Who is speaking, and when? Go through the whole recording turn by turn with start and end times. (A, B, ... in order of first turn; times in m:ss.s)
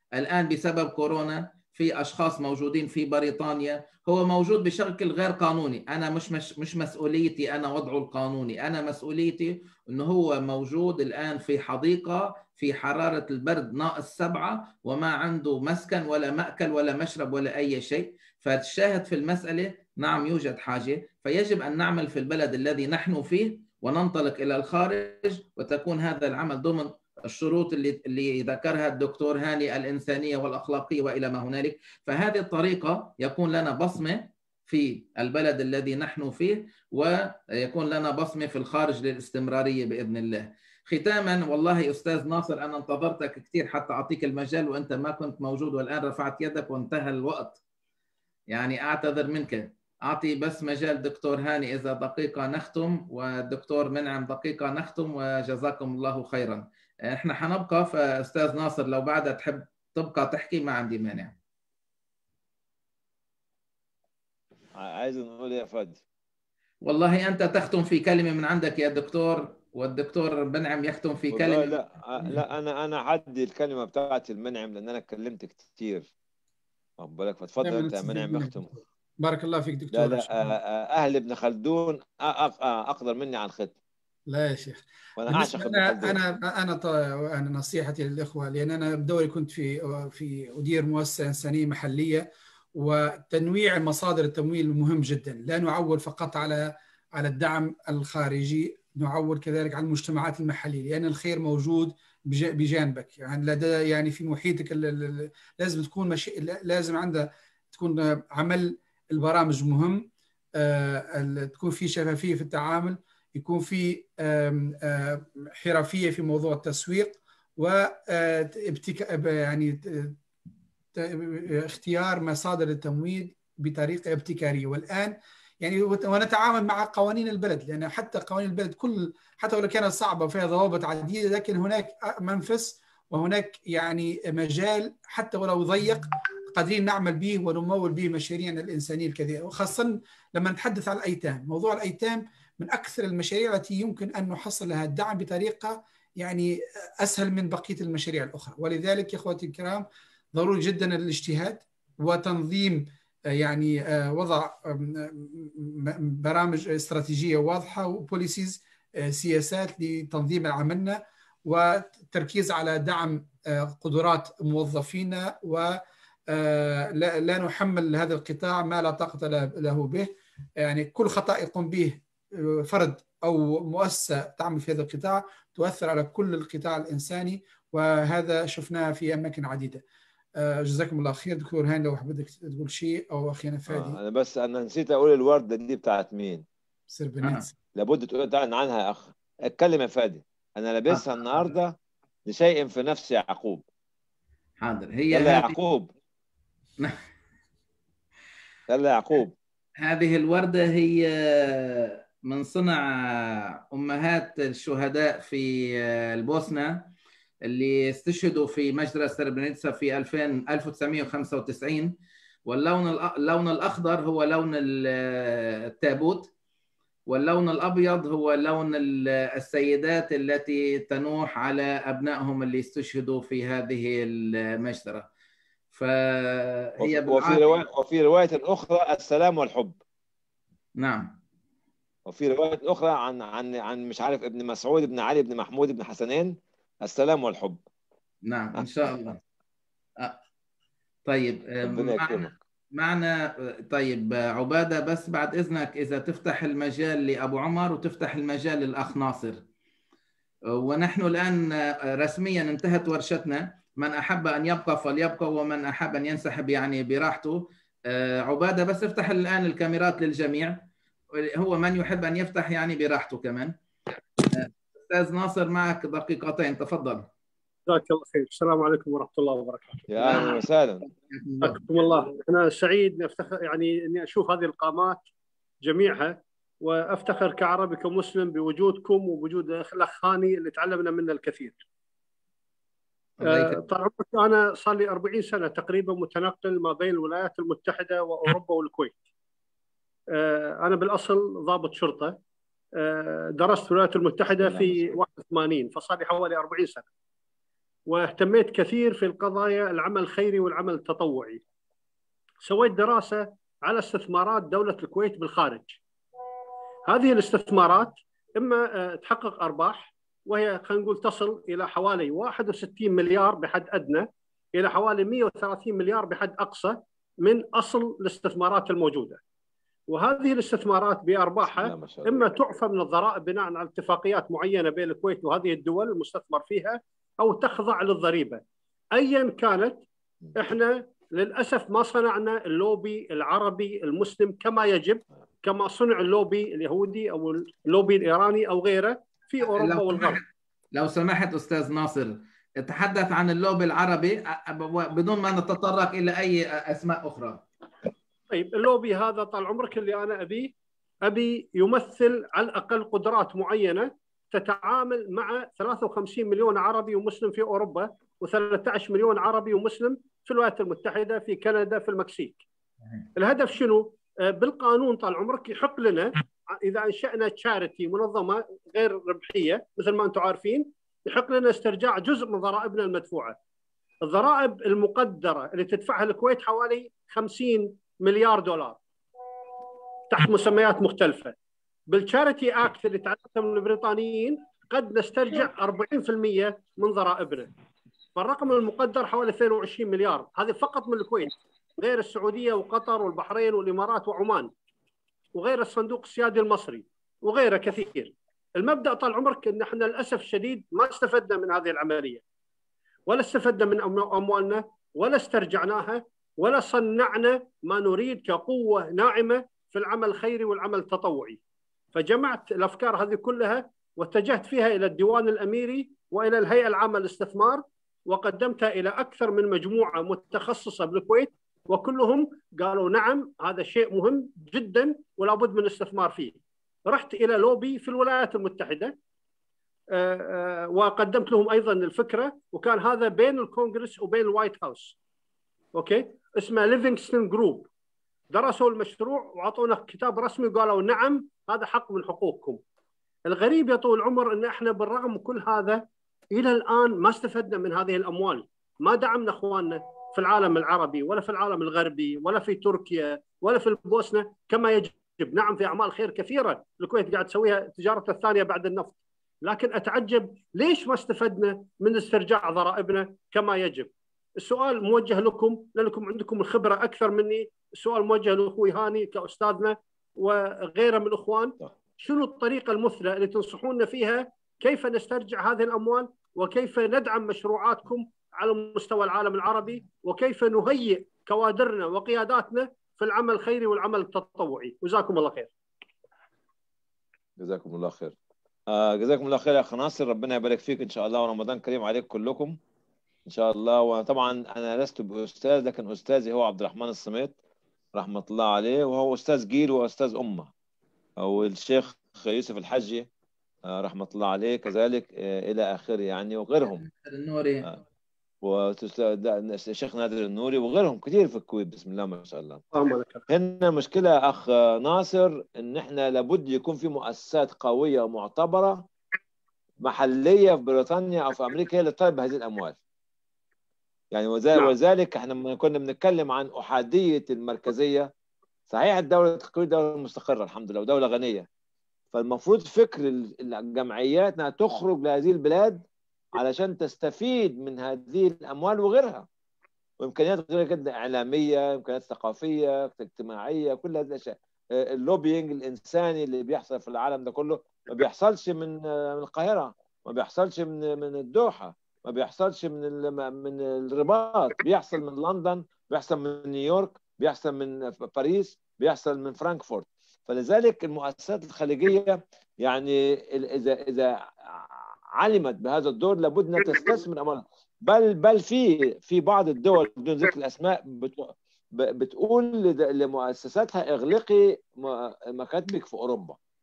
0:00.2-0:47.6 A
0:48.5-1:01.4 A
1:04.8-1:06.0 B
1:06.8-1:11.8 A
1:11.3-1:16.1 B
1:17.0-1:18.7 B
1:17.6-1:20.6 C
1:19.9-1:23.7 B
1:24.3-2:00.2 C
1:25.2-1:26.2 B
2:00.9-2:59.8 C
3:00.4-3:04.0 C
3:03.7-3:06.4 B
3:06.9-3:07.5 C
3:07.2-3:07.4 A
3:07.7-3:11.7 B
3:12.2-3:13.6 B
3:14.6-3:15.6 A
3:15.1-3:15.9 B
3:18.7-3:19.3 B
3:19.8-3:26.9 A
3:27.4-3:31.9 A
3:32.4-3:36.3 A
3:37.1-3:45.1 A
3:45.7-3:47.7 A
3:46.8-3:49.8 B
3:50.8-3:51.2 A
3:52.0-3:57.6 B
3:58.2-3:59.2 A
4:01.0-4:03.1 A
4:01.6-4:02.3 B
4:03.6-4:09.4 A
4:10.6-4:23.5 A
4:24.2-4:27.1 A
4:27.7-4:30.4 D
4:29.9-4:30.8 B
4:30.0-4:31.6 A
4:31.4-4:35.0 D
4:35.6-4:41.6 D
4:43.2-4:43.7 A
4:43.2-4:49.0 D
4:50.1-4:52.2 D
4:52.8-4:56.8 D
4:54.4-4:54.8 B
4:57.9-5:01.4 D
5:02.4-5:05.8 D
5:06.9-5:19.2 D
5:19.9-5:28.4 D
5:21.5-5:22.2 B
5:28.9-5:29.8 D
5:30.4-5:40.2 D
5:39.5-5:47.4 A
5:48.3-5:50.5 D
5:51.0-6:02.4 D
6:03.2-6:13.4 D
6:14.0-6:18.8 D
6:20.1-6:21.3 D
6:21.9-6:27.5 D
6:28.2-6:34.5 D
6:35.3-6:42.2 D
6:43.1-6:51.4 D
6:51.9-7:09.0 D
7:09.9-7:14.9 D
7:15.7-7:17.7 D
7:18.3-7:22.6 D
7:23.3-8:05.5 D
8:07.4-8:08.1 B
8:08.7-8:12.6 B
8:13.2-8:17.3 B
8:17.9-8:20.5 B
8:21.2-8:23.1 B
8:23.6-8:26.8 B
8:26.6-8:27.7 A
8:28.4-8:32.6 B
8:32.7-8:33.2 D
8:33.3-8:38.8 B
8:39.8-8:42.8 B
8:44.1-8:48.1 B
8:48.7-8:51.5 B
8:52.1-8:55.8 B
8:56.3-8:59.2 B
9:00.0-9:36.4 B